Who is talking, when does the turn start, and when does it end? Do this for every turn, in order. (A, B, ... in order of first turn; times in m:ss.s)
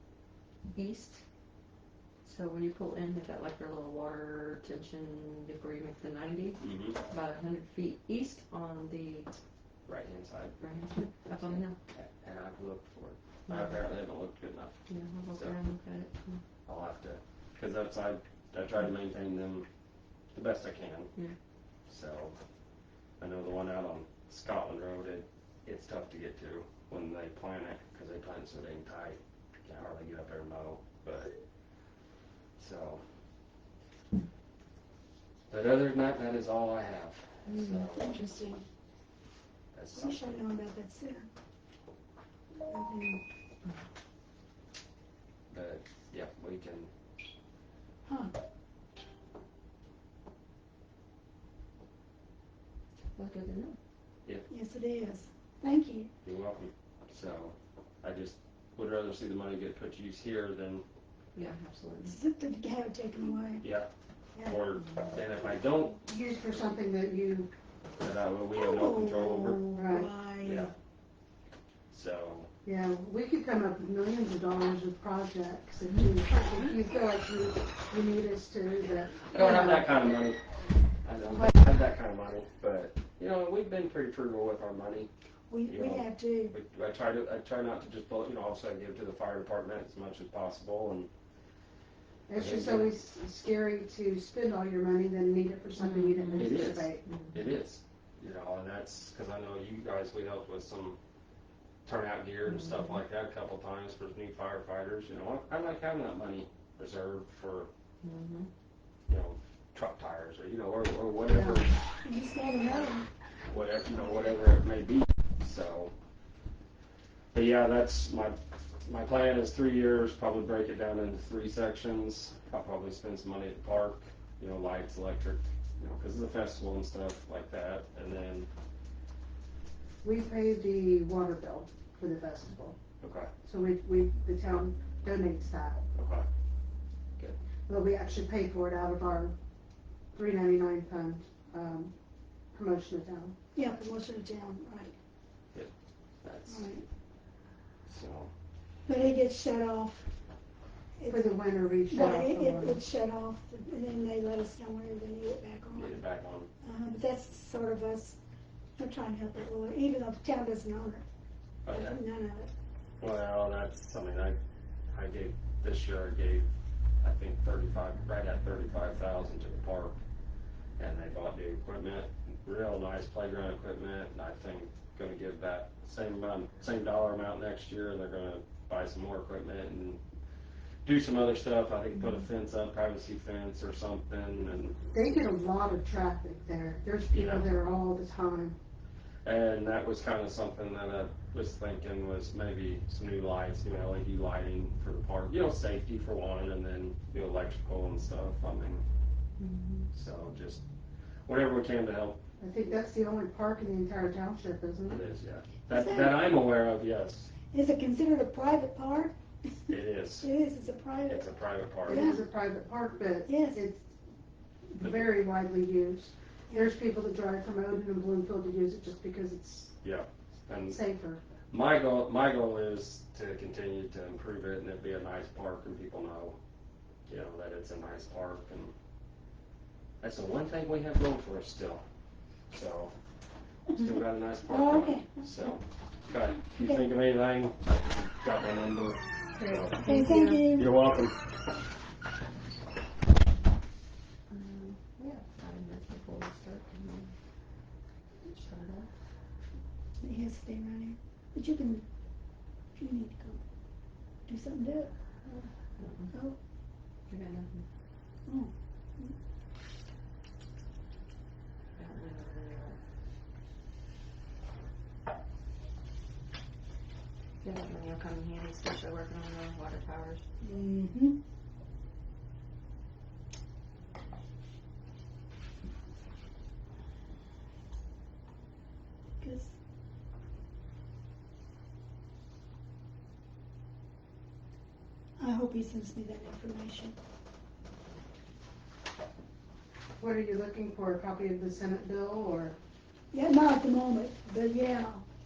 0:00.7-0:01.2 A
0:02.2-0:09.3 A
0:06.6-0:07.0 B
0:09.9-0:10.6 B
0:10.6-0:11.8 A
0:11.3-0:14.8 B
0:14.9-0:16.4 A
0:16.7-0:19.7 B
0:20.3-0:21.1 B
0:21.9-0:22.4 B
0:23.2-0:31.3 B
0:32.6-0:33.0 B
0:35.5-0:38.1 B
0:37.5-0:37.9 A
0:38.0-0:38.6 C
0:39.7-0:40.4 B
0:39.9-0:41.3 C
0:42.7-0:43.2 C
0:45.5-0:46.9 B
0:48.0-0:48.3 C
0:53.1-0:53.8 A
0:54.5-0:56.1 C
0:56.2-1:00.8 B
1:01.3-1:02.2 A
1:02.0-1:03.6 C
1:03.6-1:03.9 B
1:04.4-1:06.0 B
1:04.8-1:05.2 A
1:06.0-1:07.5 D
1:08.0-1:09.6 B
1:08.6-1:10.7 C
1:09.7-1:10.1 D
1:10.4-1:10.7 B
1:11.9-1:12.5 B
1:12.6-1:20.0 D
1:16.3-1:16.7 C
1:19.2-1:20.4 B
1:21.0-1:25.1 B
1:21.3-1:21.6 D
1:25.5-1:26.5 C
1:25.6-1:31.1 B
1:32.3-1:37.0 D
1:32.3-1:32.9 B
1:35.8-1:37.4 A
1:36.4-1:41.0 B
1:41.8-1:47.7 B
1:42.4-1:43.0 A
1:48.0-1:48.5 A
1:49.1-1:51.7 B
1:51.3-1:51.6 D
1:52.0-1:53.1 C
1:53.5-1:55.9 B
1:57.3-2:08.5 B
2:10.0-2:12.8 D
2:13.0-2:13.3 B
2:13.4-2:15.8 D
2:15.9-2:16.3 B
2:17.7-2:19.3 D
2:20.1-2:21.9 D
2:22.5-2:23.4 D
2:23.5-2:24.9 C
2:26.2-2:26.7 B
2:26.5-2:26.8 D
2:27.8-2:28.3 B
2:28.9-2:30.1 C
2:31.0-2:31.3 C
2:31.1-2:32.8 D
2:31.9-2:36.0 C
2:35.7-2:36.5 B
2:36.6-2:38.2 C
2:38.8-2:41.0 C
2:41.6-2:42.0 B
2:41.7-2:42.5 C
2:43.0-2:44.4 B
2:44.9-2:50.0 B
2:50.8-3:00.0 B
3:00.8-3:04.8 B
3:04.9-3:08.6 D
3:07.1-3:07.4 B
3:09.2-3:18.8 B
3:19.4-3:19.9 A
3:19.9-3:20.6 B
3:21.3-3:22.2 B
3:22.4-3:25.0 D
3:24.9-3:27.3 B
3:25.7-3:26.2 C
3:27.5-3:31.3 C
3:29.7-3:30.3 B
3:31.0-3:32.2 B
3:31.8-3:33.8 D
3:31.9-3:32.3 C
3:33.3-3:33.6 C
3:34.7-3:39.7 D
3:39.8-3:40.8 B
3:40.7-3:41.2 D
3:41.5-3:46.4 B
3:47.1-3:48.7 B
3:50.0-3:51.8 B
3:52.5-3:52.9 B
3:53.7-3:59.8 B
3:54.5-3:55.2 C
3:59.3-4:00.5 A
3:59.8-4:00.7 C
4:00.5-4:01.3 B
4:04.3-4:07.1 A
4:08.2-4:08.9 A
4:10.0-4:11.8 C
4:12.7-4:13.4 C
4:14.2-4:14.9 C
4:15.2-4:16.1 A
4:16.1-4:16.4 C
4:17.1-4:17.6 A
4:18.3-4:19.1 C
4:21.8-4:22.8 A
4:27.4-4:30.2 A
4:30.4-4:31.2 C
4:39.2-4:39.5 C
4:45.2-4:46.9 C
4:50.0-4:52.6 D
4:53.1-4:55.0 C